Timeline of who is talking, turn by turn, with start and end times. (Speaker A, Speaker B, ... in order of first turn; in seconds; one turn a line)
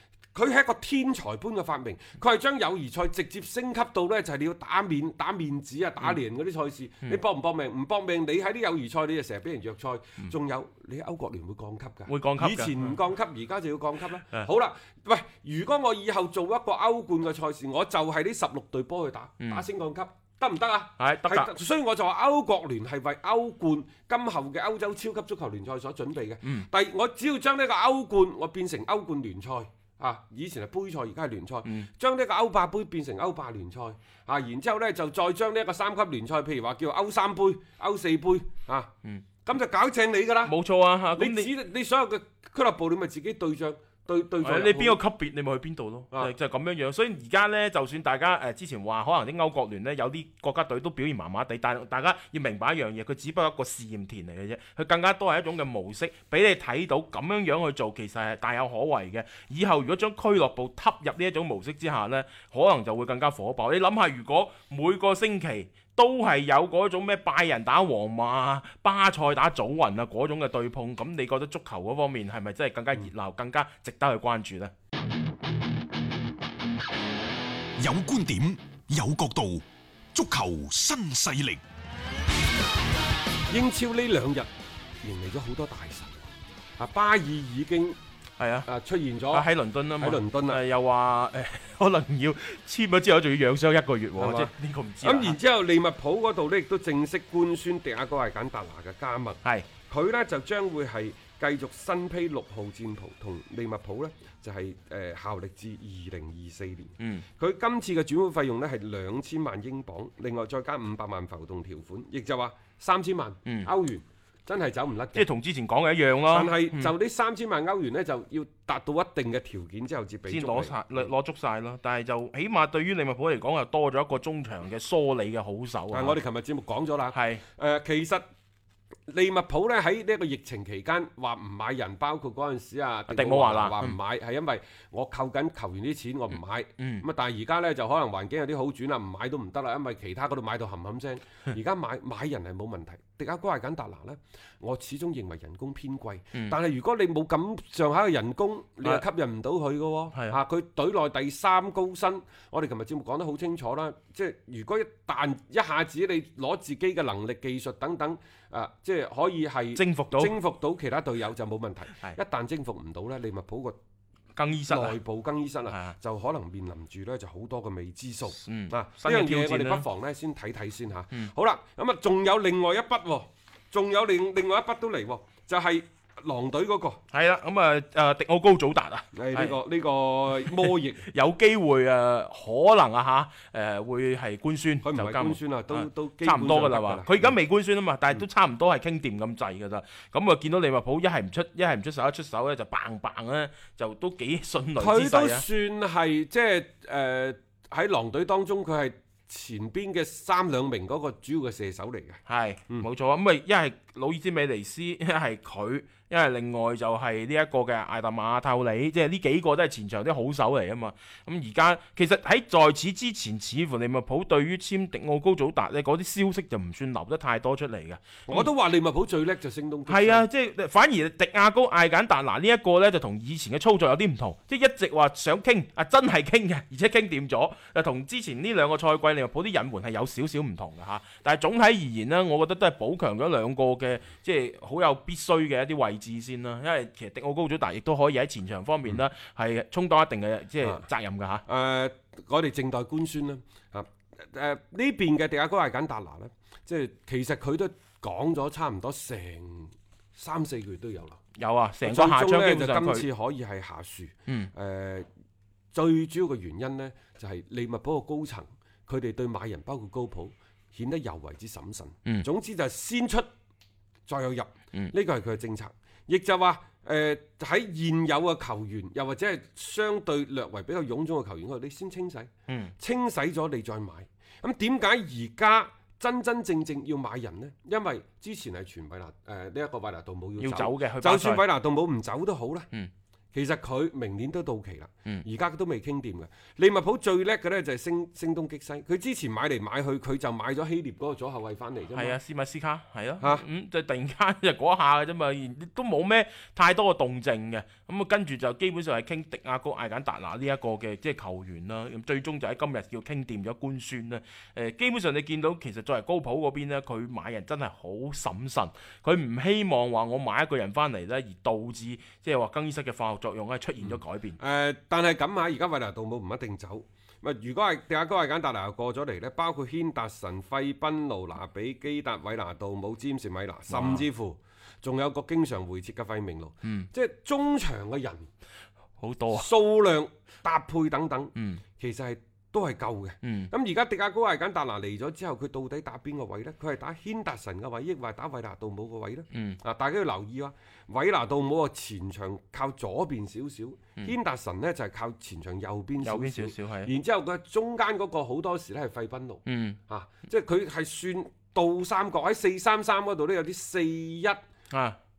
Speaker A: 0.3-38.9
Speaker B: 12.1-12.9
Speaker B: 21.0-21.5
Speaker A: 39.5-40.5
Speaker B: 40.5-41.5
Speaker A: 41.2-45.0
Speaker B: 44.4-74.7
Speaker C: 77.8-81.6
Speaker A: 83.5-84.5
Speaker A: 85.0-86.3
Speaker A: 86.8-88.0
Speaker B: 88.4-88.7
Speaker A: 88.7-89.5
Speaker B: 89.3-95.4
Speaker A: 90.0-90.6
Speaker A: 94.2-94.5
Speaker A: 95.0-115.3
Speaker B: 107.0-107.2
Speaker B: 115.2-116.9
Speaker A: 116.3-121.1
Speaker B: 120.3-126.2
Speaker A: 125.9-128.2
Speaker B: 127.1-127.4
Speaker A: 129.1-163.8
Speaker B: 133.1-134.0
Speaker B: 136.8-137.0
Speaker B: 159.8-160.3
Speaker B: 164.4-165.0
Speaker A: 164.7-177.0
Speaker B: 165.7-166.0
Speaker B: 168.4-169.8
Speaker B: 177.1-179.6
Speaker A: 179.1-181.1
Speaker B: 180.4-195.4
Speaker A: 184.8-187.4
Speaker A: 194.8-202.9
Speaker B: 202.3-218.5
Speaker A: 218.3-220.2
Speaker B: 219.9-241.4
Speaker A: 241.5-251.2
Speaker B: 251.4-253.1
Speaker A: 251.8-255.1
Speaker A: 255.7-263.3
Speaker A: 264.1-282.7
Speaker B: 272.5-272.7
Speaker B: 280.4-281.4
Speaker A: 283.3-292.2
Speaker B: 291.9-314.4
Speaker A: 313.8-328.3
Speaker B: 323.7-324.1
Speaker B: 326.6-326.9
Speaker B: 329.0-329.5
Speaker A: 329.3-354.4
Speaker B: 331.4-331.6
Speaker B: 333.2-333.5
Speaker B: 339.3-339.6
Speaker B: 346.0-346.9
Speaker B: 349.5-349.8
Speaker B: 354.7-355.0